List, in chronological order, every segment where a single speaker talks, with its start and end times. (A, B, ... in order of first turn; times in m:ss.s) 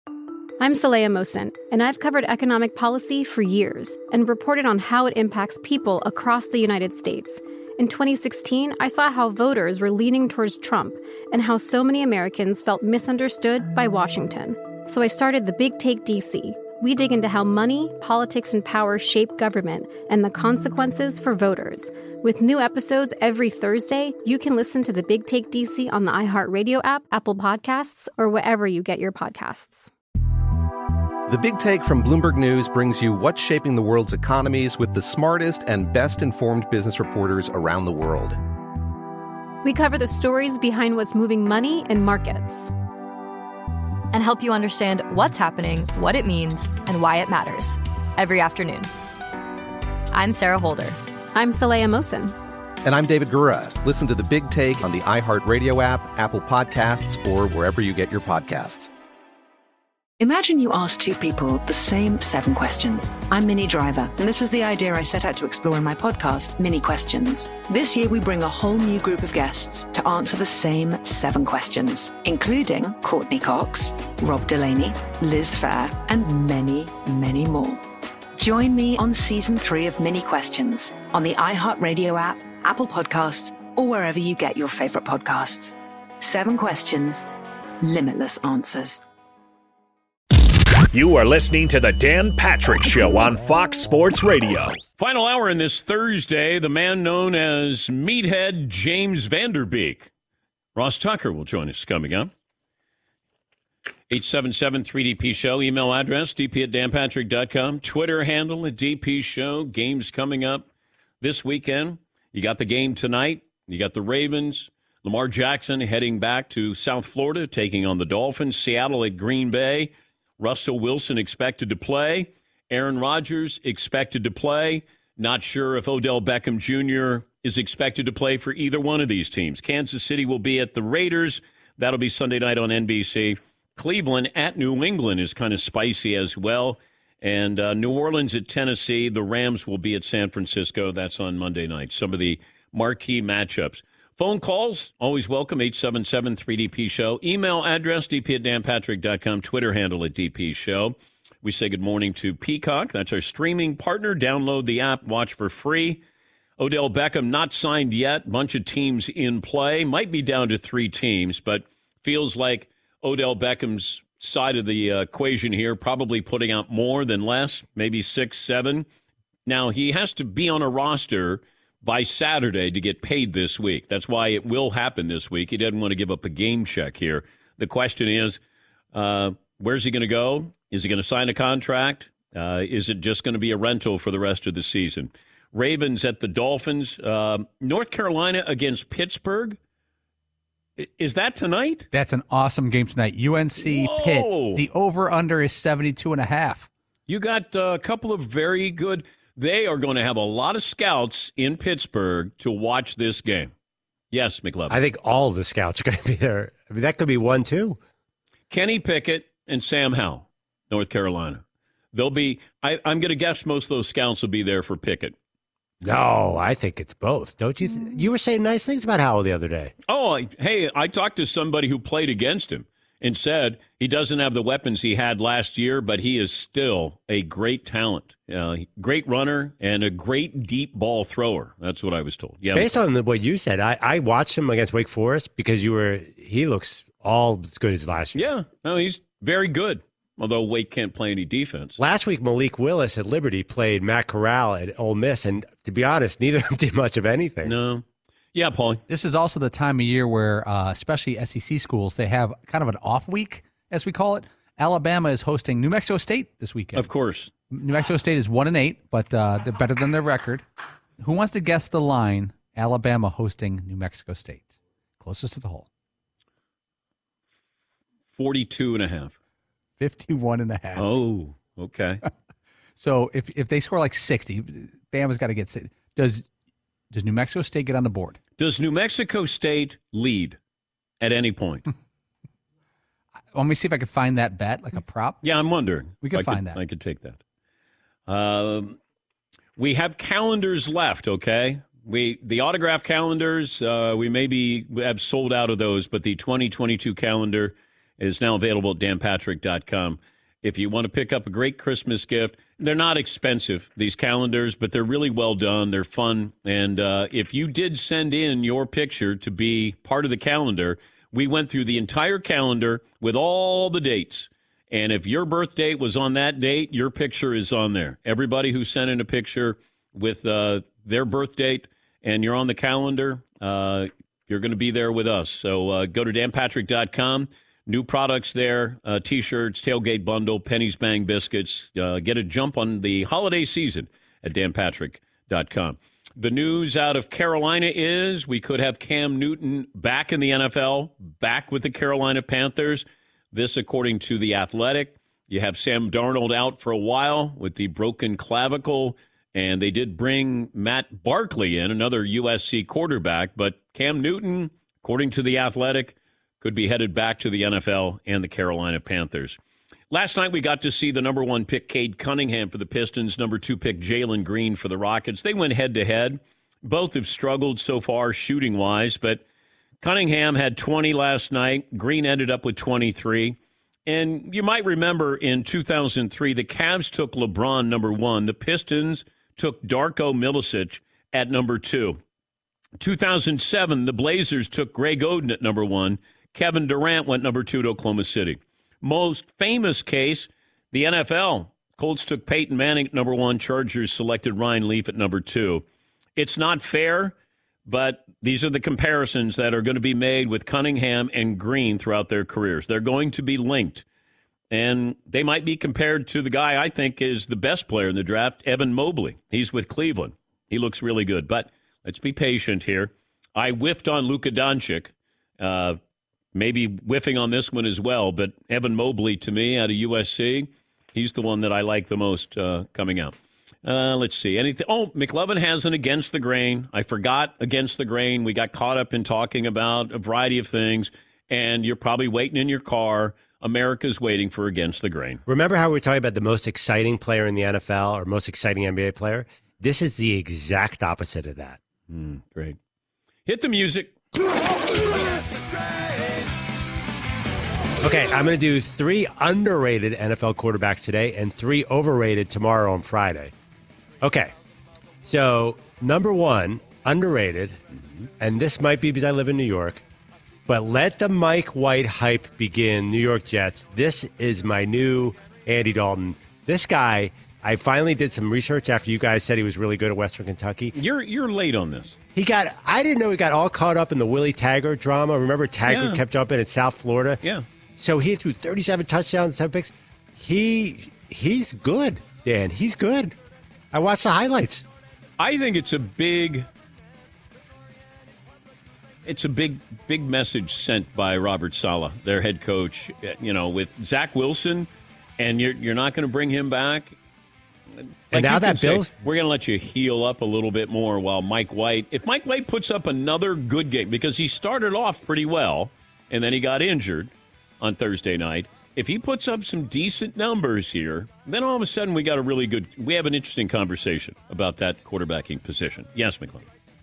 0:00.6-0:29.9 A
0:31.3-0:38.4 B
0:39.6-0:42.7 A
0:44.1-0:48.9 C
0:50.1-0:51.0 C
0:51.3-0:52.3 A
0:52.8-0:58.9 B
1:00.2-1:17.8 D
1:18.4-1:27.3 D
1:27.8-1:29.0 D
1:30.9-1:34.8 E
1:35.0-1:40.1 F
1:40.7-1:42.3 F
1:44.1-1:50.7 F
1:51.2-2:36.0 F
2:36.6-2:48.8 F
2:49.4-2:58.4 F
2:58.9-3:09.6 F
3:10.8-3:11.9 F
3:11.9-3:16.7 G
3:13.6-3:14.6 F
3:17.1-3:23.5 F
3:24.1-3:24.8 F
3:24.7-3:27.8 H
3:28.5-3:31.4 F
3:31.9-3:35.1 F
3:35.8-3:39.7 H
3:39.9-3:52.8 F
3:52.5-3:58.2 H
3:58.1-4:01.8 F
4:01.8-4:07.6 H
4:07.4-4:08.8 F
4:08.9-4:16.9 G
4:16.7-4:17.3 F
4:17.5-4:20.4 G
4:21.0-4:25.7 G
4:28.1-4:29.2 F
4:29.8-4:30.9 G
4:30.8-4:32.0 F
4:32.8-4:36.2 G
4:36.9-4:38.2 G
4:38.4-4:40.4 F
4:41.0-4:41.6 F
4:43.3-4:45.2 G
4:45.2-4:47.2 F
4:46.0-4:46.6 G
4:48.1-4:48.8 F
4:49.6-5:59.4 F
5:59.9-6:09.2 F
6:09.8-6:22.0 F
6:22.8-6:35.6 F
6:36.2-6:37.1 F
6:37.6-6:43.8 F
6:44.5-6:55.8 F
6:56.3-7:15.2 F
7:15.2-7:21.6 H
7:21.9-7:22.6 F
7:23.2-7:23.9 F
7:27.8-7:33.3 H
7:34.0-7:34.3 H
7:35.0-7:37.6 H
7:38.2-7:39.8 H
7:40.5-7:50.7 H
7:50.7-7:52.0 F
7:52.1-7:57.2 H
7:55.7-7:56.0 F
7:57.8-8:03.1 H
8:03.7-8:04.6 H
8:05.2-8:06.5 F
8:09.0-8:16.9 F
8:18.1-8:36.4 F
8:18.1-8:18.9 H